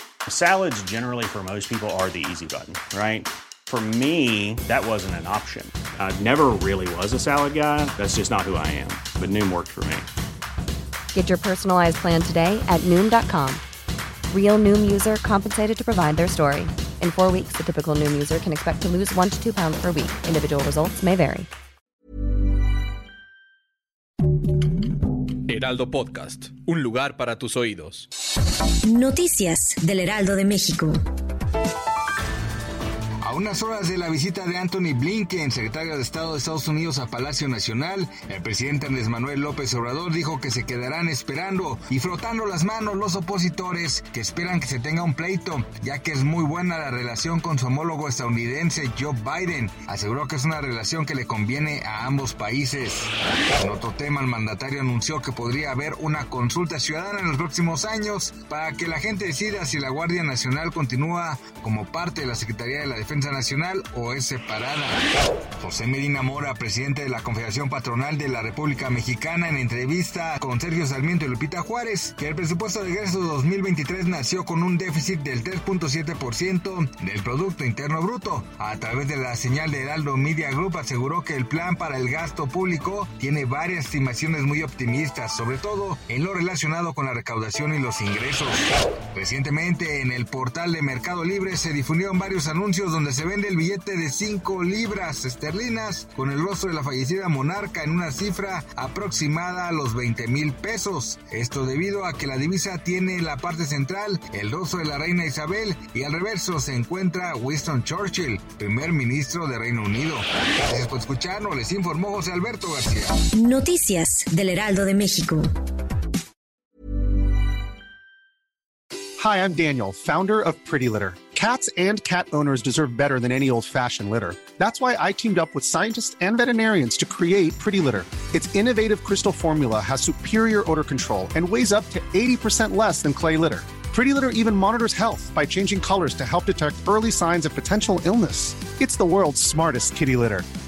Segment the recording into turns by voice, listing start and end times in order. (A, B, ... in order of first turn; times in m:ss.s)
0:00.3-0:10.1 A
0:11.1-0:13.6 B
0:14.3-0:21.5 B
0:25.5-0:28.0 C
0:28.8-0:31.0 D
0:33.2-1:05.0 E
1:05.6-1:53.2 E
1:53.4-1:55.5 D
1:59.2-2:20.4 F